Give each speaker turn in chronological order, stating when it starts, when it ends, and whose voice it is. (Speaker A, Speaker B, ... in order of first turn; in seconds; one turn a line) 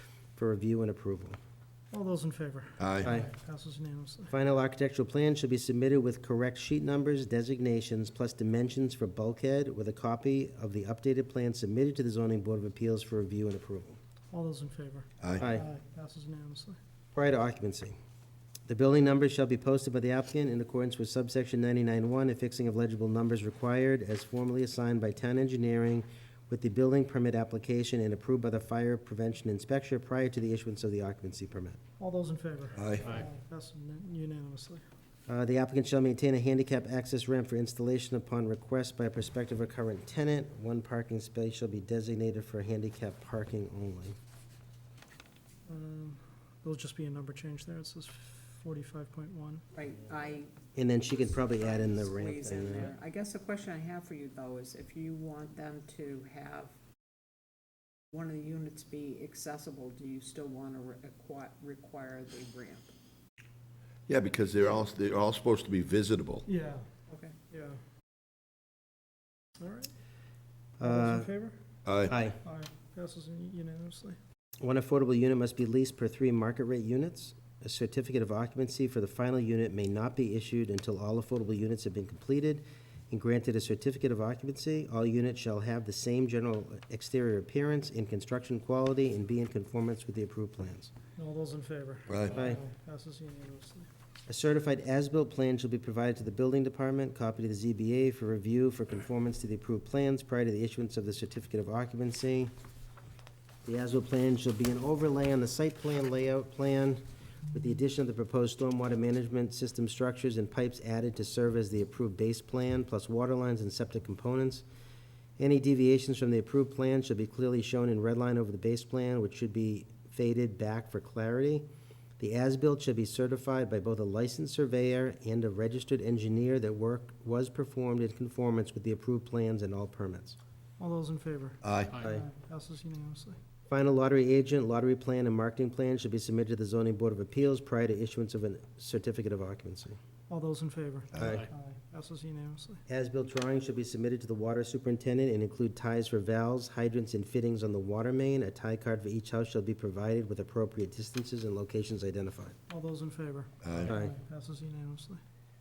Speaker A: 0.4-1.4
Speaker B: 1.9-4.3
Speaker C: 2.8-3.1
Speaker A: 3.0-3.3
Speaker A: 4.3-14.0
Speaker B: 14.3-16.8
Speaker A: 15.4-15.7
Speaker A: 17.1-18.0
Speaker A: 18.7-31.8
Speaker B: 32.0-34.9
Speaker C: 32.8-33.1
Speaker A: 35.3-44.2
Speaker B: 45.7-49.6
Speaker D: 49.8-56.8
Speaker A: 50.8-52.9
Speaker D: 58.1-62.9
Speaker C: 64.1-66.5
Speaker B: 66.5-66.9
Speaker D: 67.1-67.4
Speaker B: 67.5-67.8
Speaker B: 69.6-69.9
Speaker A: 70.8-71.3
Speaker B: 70.8-71.6
Speaker C: 71.9-72.2
Speaker A: 72.1-72.4
Speaker B: 72.4-74.2
Speaker A: 74.6-90.9
Speaker B: 91.2-93.9
Speaker C: 92.1-92.3
Speaker A: 92.3-92.6
Speaker A: 94.3-102.5
Speaker A: 103.7-114.6
Speaker A: 115.4-121.7
Speaker A: 122.2-130.4
Speaker B: 130.8-133.4
Speaker C: 131.6-132.0
Speaker A: 133.7-140.0
Speaker B: 140.3-142.8
Speaker A: 141.2-141.5
Speaker A: 142.9-152.6
Speaker B: 152.7-155.2
Speaker C: 153.6-153.9
Speaker A: 153.9-154.1